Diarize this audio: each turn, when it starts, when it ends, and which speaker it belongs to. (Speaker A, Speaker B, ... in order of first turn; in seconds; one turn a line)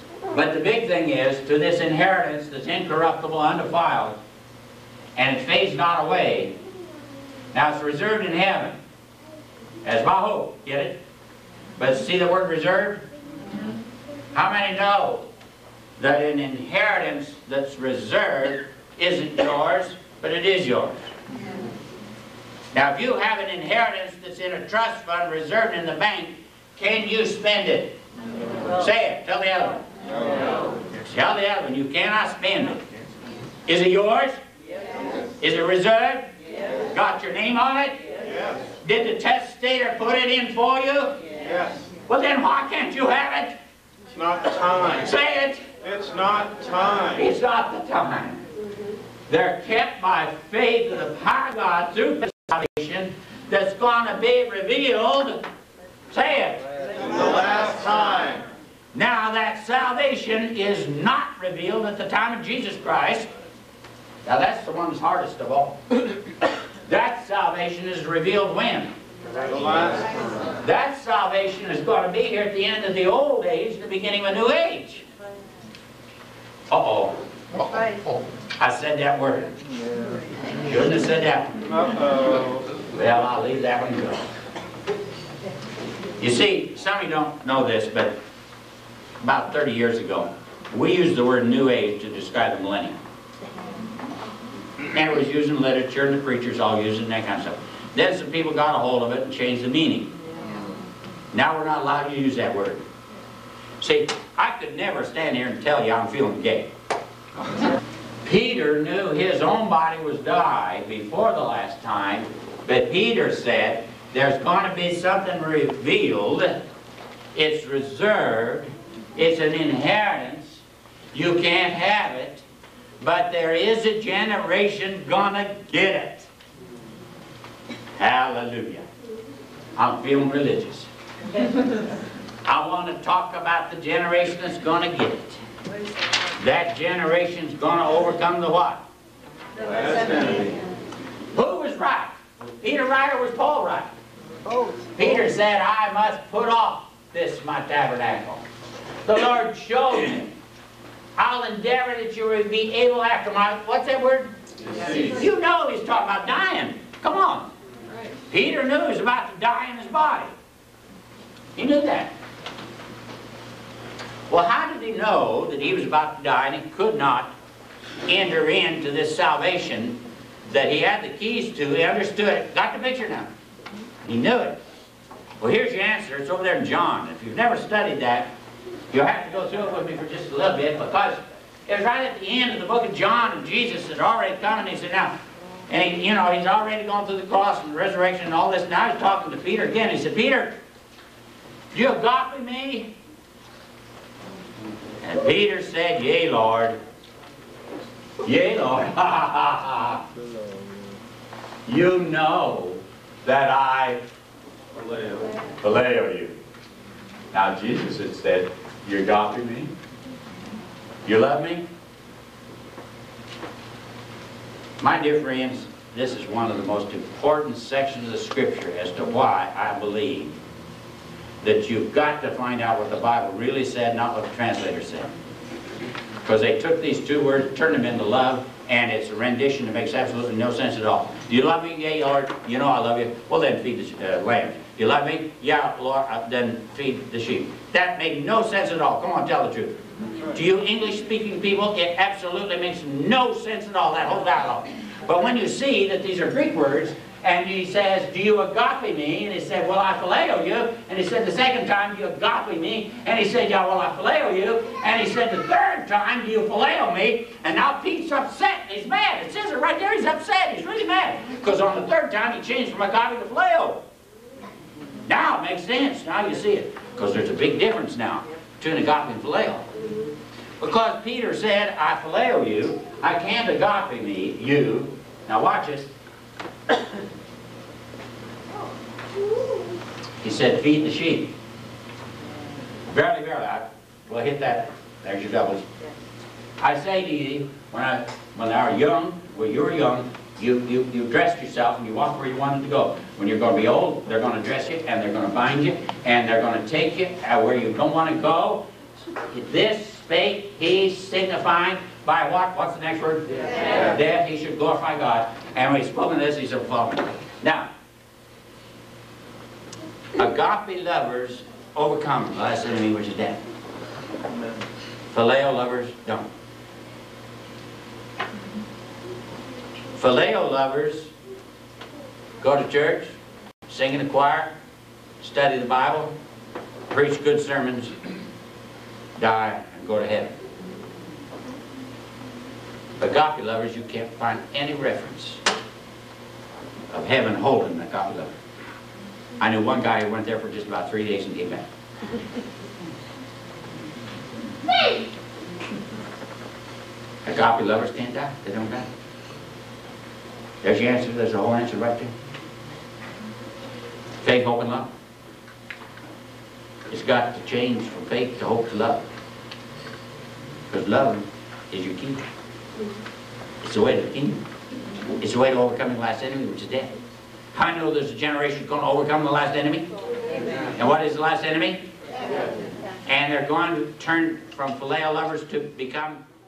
Speaker A: 0.3-4.2
Speaker A: 5.2-6.6
Speaker A: 7.5-8.8
Speaker A: 9.8-11.0
Speaker A: 11.8-13.0
Speaker A: 14.3-15.3
Speaker A: 16.0-21.1
Speaker A: 22.7-28.0
Speaker A: 28.7-29.9
Speaker A: 31.1-32.9
Speaker A: 33.7-34.4
Speaker A: 35.4-36.3
Speaker A: 36.9-38.0
Speaker B: 38.2-38.6
Speaker A: 38.8-41.2
Speaker B: 41.4-41.9
Speaker A: 42.1-43.6
Speaker B: 44.1-45.1
Speaker A: 44.9-45.6
Speaker B: 45.8-47.3
Speaker A: 47.2-48.4
Speaker A: 49.3-55.4
Speaker A: 56.1-56.6
Speaker B: 57.0-58.4
Speaker A: 58.9-63.3
Speaker A: 64.2-66.0
Speaker A: 66.9-68.9
Speaker B: 69.5-70.2
Speaker A: 70.6-75.0
Speaker A: 76.7-77.2
Speaker A: 78.6-79.6
Speaker A: 80.7-81.6
Speaker B: 81.7-82.7
Speaker A: 82.9-84.2
Speaker A: 86.2-88.2
Speaker A: 89.2-93.0
Speaker A: 94.9-100.1
Speaker A: 101.3-102.9
Speaker A: 103.8-106.7
Speaker A: 108.2-116.6
Speaker A: 117.3-122.4
Speaker A: 123.0-126.3
Speaker A: 128.0-128.9
Speaker A: 129.8-130.9
Speaker A: 132.4-135.4
Speaker A: 136.4-138.8
Speaker B: 139.6-140.6
Speaker A: 141.3-143.9
Speaker A: 145.0-148.4
Speaker A: 149.1-150.3
Speaker A: 151.2-157.5
Speaker B: 154.7-155.1
Speaker A: 158.3-160.3
Speaker A: 161.6-162.1
Speaker A: 164.3-167.3
Speaker A: 168.1-173.3
Speaker A: 174.0-174.6
Speaker A: 175.4-178.3
Speaker A: 178.9-190.6
Speaker A: 191.7-192.9
Speaker A: 195.0-196.8
Speaker A: 198.2-200.0
Speaker A: 201.7-204.1
Speaker B: 204.9-205.2
Speaker A: 205.6-206.4
Speaker A: 207.3-209.7
Speaker A: 211.1-211.7
Speaker A: 214.8-220.4
Speaker A: 221.4-225.1
Speaker A: 226.2-239.8
Speaker A: 240.3-263.8
Speaker A: 265.1-269.7
Speaker A: 270.6-275.9
Speaker A: 280.2-281.3
Speaker A: 282.9-285.6
Speaker A: 286.6-298.6
Speaker A: 299.3-307.7
Speaker A: 310.2-313.4
Speaker A: 315.1-316.3
Speaker A: 320.0-321.1
Speaker A: 322.4-323.2
Speaker A: 323.7-324.6
Speaker A: 325.2-326.1
Speaker A: 326.9-327.9
Speaker A: 329.2-330.4
Speaker A: 333.0-335.4
Speaker A: 336.9-338.4
Speaker A: 339.4-341.7
Speaker A: 347.2-348.9
Speaker A: 350.6-352.1
Speaker A: 354.2-354.9
Speaker A: 356.9-359.1
Speaker A: 360.7-362.2
Speaker A: 363.6-364.4
Speaker A: 365.2-367.0
Speaker A: 367.5-369.9
Speaker A: 370.7-371.8
Speaker A: 373.1-376.2